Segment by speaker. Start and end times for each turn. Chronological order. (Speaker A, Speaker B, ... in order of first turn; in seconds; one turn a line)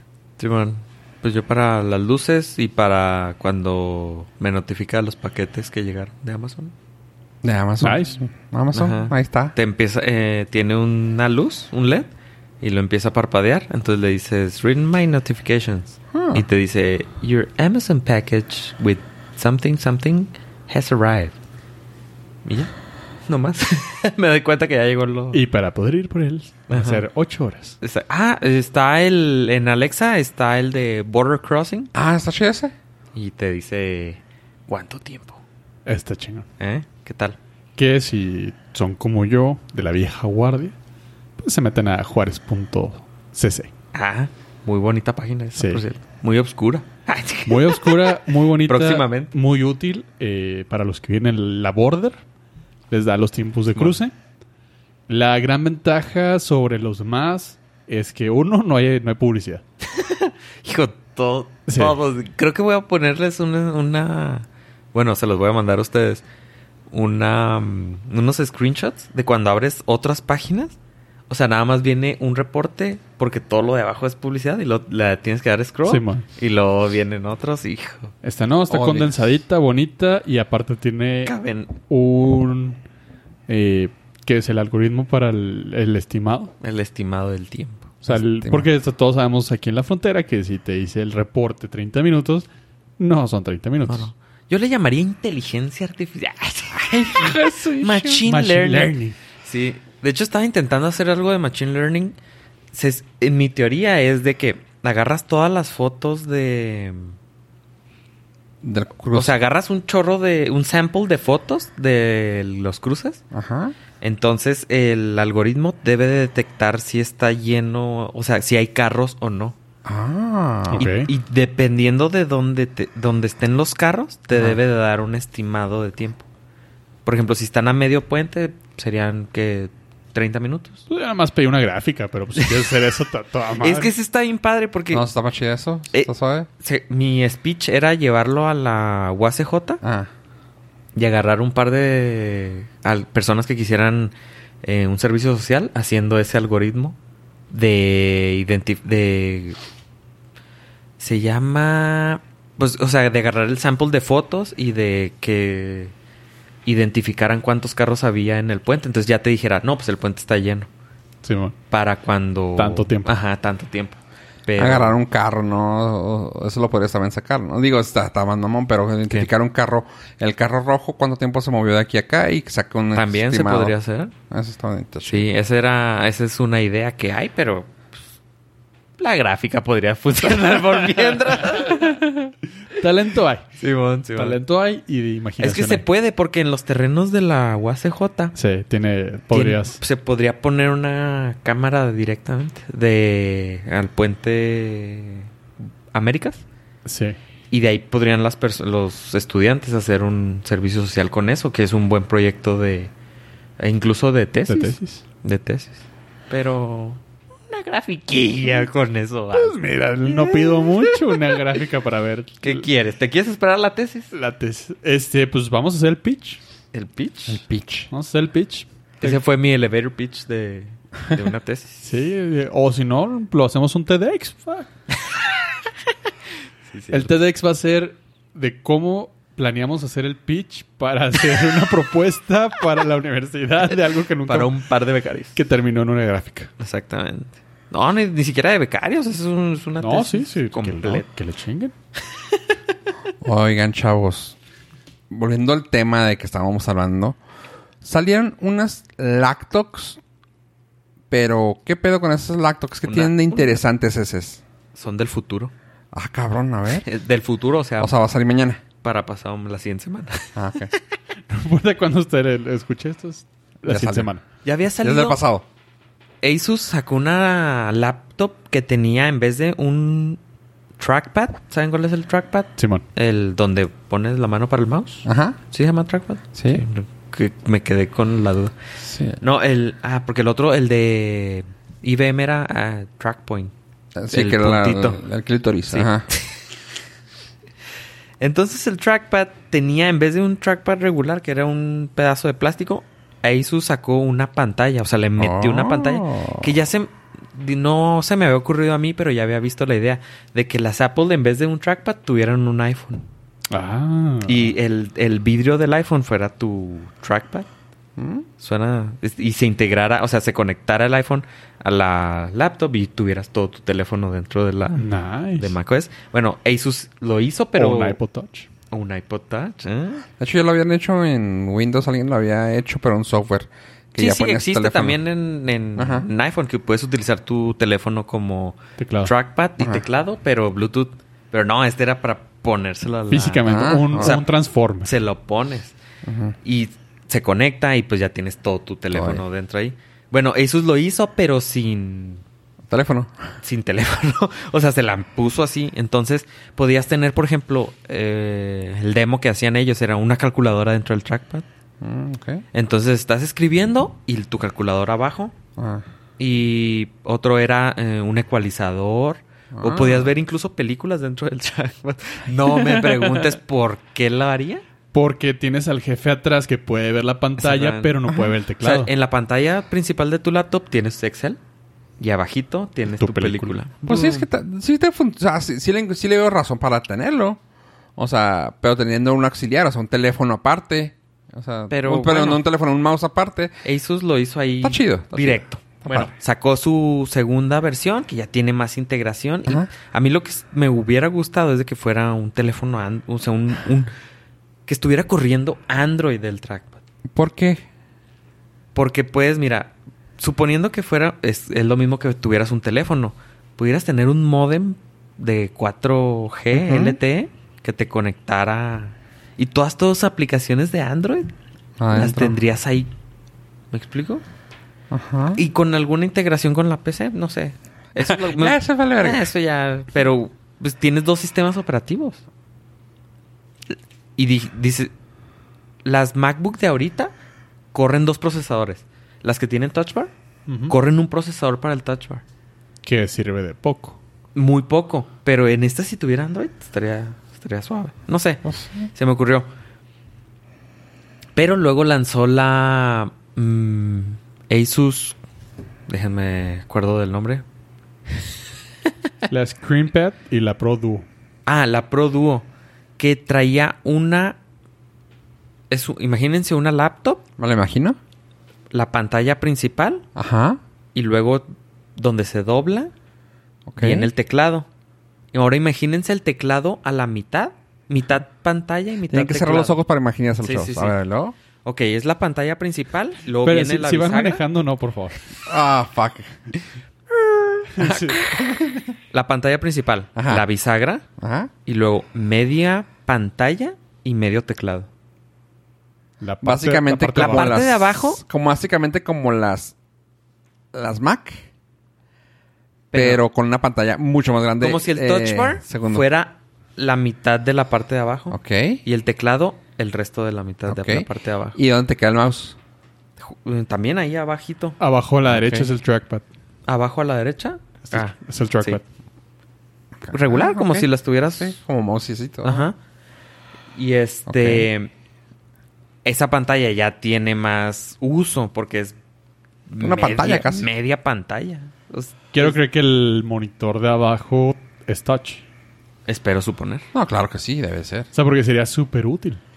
Speaker A: 0.4-6.7
Speaker B: 7.4-9.6
Speaker C: 7.8-8.2
Speaker A: 8.7-12.1
Speaker A: 12.6-21.4
Speaker B: 16.1-16.4
Speaker A: 22.4-22.7
Speaker A: 23.3-25.4
Speaker C: 25.3-27.8
Speaker A: 26.7-27.0
Speaker A: 27.8-31.9
Speaker B: 31.9-32.7
Speaker A: 33.1-35.4
Speaker C: 35.9-36.5
Speaker A: 36.6-37.4
Speaker C: 37.8-40.7
Speaker C: 41.4-43.7
Speaker A: 43.9-49.3
Speaker C: 45.6-45.8
Speaker C: 47.5-52.2
Speaker C: 52.9-54.1
Speaker C: 55.1-59.6
Speaker A: 59.8-66.2
Speaker C: 61.7-62.0
Speaker A: 66.9-70.8
Speaker A: 71.3-78.1
Speaker C: 75.9-76.2
Speaker C: 78.2-81.3
Speaker B: 78.7-79.1
Speaker A: 81.2-81.7
Speaker C: 81.9-82.8
Speaker C: 83.5-86.5
Speaker A: 86.6-88.0
Speaker C: 88.0-92.5
Speaker B: 88.1-88.7
Speaker C: 93.0-94.1
Speaker A: 93.9-102.1
Speaker B: 96.7-98.2
Speaker C: 98.2-99.2
Speaker A: 102.7-107.1
Speaker B: 108.6-109.3
Speaker A: 109.1-113.2
Speaker B: 113.3-113.7
Speaker A: 114.0-119.6
Speaker B: 119.9-120.9
Speaker C: 120.7-121.1
Speaker A: 120.8-126.2
Speaker A: 127.0-130.8
Speaker C: 130.9-133.9
Speaker A: 132.4-132.9
Speaker A: 133.6-135.1
Speaker B: 134.9-136.5
Speaker A: 136.6-139.8
Speaker B: 139.8-140.1
Speaker A: 140.9-146.9
Speaker A: 147.5-149.6
Speaker A: 151.0-155.9
Speaker A: 156.7-160.7
Speaker C: 161.2-161.6
Speaker A: 161.7-164.9
Speaker C: 162.6-163.1
Speaker B: 164.6-173.7
Speaker A: 172.9-174.1
Speaker B: 174.3-175.3
Speaker A: 175.1-177.9
Speaker A: 179.0-182.3
Speaker C: 182.8-183.4
Speaker A: 183.6-184.4
Speaker C: 184.1-185.8
Speaker A: 185.4-188.3
Speaker C: 188.3-189.8
Speaker A: 189.3-195.3
Speaker A: 195.9-196.4
Speaker C: 196.9-197.2
Speaker A: 197.5-202.9
Speaker A: 203.6-211.4
Speaker C: 204.5-205.0
Speaker C: 209.3-212.7
Speaker A: 212.4-214.1
Speaker C: 214.1-216.4
Speaker A: 216.7-217.4
Speaker B: 217.3-217.9
Speaker C: 217.9-219.2
Speaker A: 219.0-221.8
Speaker C: 221.8-224.7
Speaker A: 226.7-227.1
Speaker C: 226.9-234.5
Speaker A: 234.3-235.4
Speaker C: 235.3-236.5
Speaker A: 236.6-241.1
Speaker C: 239.8-241.7
Speaker B: 243.2-244.4
Speaker B: 245.1-247.2
Speaker B: 247.8-250.0
Speaker B: 251.1-254.4
Speaker A: 252.9-253.6
Speaker A: 254.7-255.5
Speaker B: 255.9-256.9
Speaker A: 256.8-257.9
Speaker B: 257.8-258.6
Speaker A: 258.8-260.8
Speaker B: 260.4-260.7
Speaker C: 261.3-264.2
Speaker B: 263.6-264.1
Speaker A: 264.4-265.2
Speaker B: 264.8-265.4
Speaker A: 266.2-270.2
Speaker A: 270.8-278.5
Speaker C: 272.6-272.8
Speaker B: 275.1-275.4
Speaker B: 276.4-276.6
Speaker B: 278.8-279.2
Speaker A: 279.2-283.5
Speaker B: 283.9-286.1
Speaker A: 284.1-285.0
Speaker A: 285.7-286.4
Speaker A: 288.2-303.1
Speaker B: 295.2-296.6
Speaker C: 303.5-304.5
Speaker A: 304.3-307.5
Speaker B: 308.0-308.3
Speaker A: 308.4-318.0
Speaker C: 314.7-315.6
Speaker C: 317.6-318.5
Speaker A: 318.7-320.1
Speaker B: 320.2-325.0
Speaker A: 324.0-334.2
Speaker B: 325.8-326.1
Speaker C: 328.8-329.1
Speaker C: 333.1-334.9
Speaker B: 333.4-334.2
Speaker A: 334.8-335.7
Speaker B: 336.0-336.4
Speaker A: 336.4-342.2
Speaker B: 338.9-339.2
Speaker B: 342.7-343.1
Speaker A: 343.4-351.4
Speaker B: 351.8-352.4
Speaker A: 352.5-355.3
Speaker B: 355.6-355.9
Speaker A: 356.2-364.6
Speaker B: 359.5-360.1
Speaker B: 362.5-363.2
Speaker C: 364.9-368.9
Speaker A: 367.4-371.4
Speaker A: 372.0-374.3
Speaker C: 373.0-373.6
Speaker B: 373.8-377.4
Speaker B: 378.0-383.5
Speaker A: 381.7-382.4
Speaker A: 383.6-393.9
Speaker B: 384.6-386.1
Speaker A: 394.7-396.8
Speaker B: 397.1-397.6
Speaker A: 398.7-411.3
Speaker B: 406.5-407.0
Speaker B: 411.8-412.4
Speaker A: 411.9-412.9
Speaker A: 413.7-414.2
Speaker B: 414.9-415.4
Speaker A: 415.4-422.2
Speaker B: 418.0-419.3
Speaker A: 424.2-424.9
Speaker A: 425.8-427.1
Speaker A: 427.7-430.1
Speaker C: 430.5-430.7
Speaker A: 430.7-432.2
Speaker C: 432.8-434.0
Speaker A: 434.4-439.5
Speaker B: 438.4-438.9
Speaker A: 441.4-445.2
Speaker A: 445.9-447.4
Speaker C: 449.3-451.1
Speaker A: 451.4-452.4
Speaker A: 453.0-454.4
Speaker A: 455.7-457.2
Speaker B: 457.4-457.9
Speaker A: 458.7-460.1
Speaker B: 460.1-460.6
Speaker A: 460.9-462.9
Speaker B: 463.7-464.1
Speaker A: 463.8-464.7
Speaker A: 465.3-469.8
Speaker B: 469.1-471.4
Speaker A: 470.4-470.9
Speaker A: 471.6-474.4
Speaker C: 473.4-475.2
Speaker B: 475.4-476.4
Speaker A: 477.6-481.1
Speaker C: 477.8-478.2
Speaker B: 477.8-478.5
Speaker B: 480.2-480.4
Speaker B: 481.2-481.5
Speaker A: 481.7-484.9
Speaker C: 486.2-487.6
Speaker B: 486.4-489.7
Speaker A: 487.2-488.2
Speaker B: 490.7-491.4
Speaker A: 492.9-493.2
Speaker B: 492.9-496.1
Speaker A: 494.6-501.6
Speaker B: 498.3-498.8
Speaker B: 500.7-502.6
Speaker A: 503.2-504.8
Speaker C: 504.8-506.2
Speaker B: 505.3-505.7
Speaker A: 506.7-508.8
Speaker C: 507.8-508.8
Speaker B: 510.0-512.7
Speaker A: 510.1-511.6
Speaker A: 512.4-512.8
Speaker A: 513.7-514.9
Speaker B: 514.3-514.7
Speaker A: 516.0-519.0
Speaker A: 519.7-522.6
Speaker B: 519.8-520.7
Speaker C: 522.3-525.4
Speaker A: 526.1-526.8
Speaker B: 526.9-528.1
Speaker C: 528.1-529.4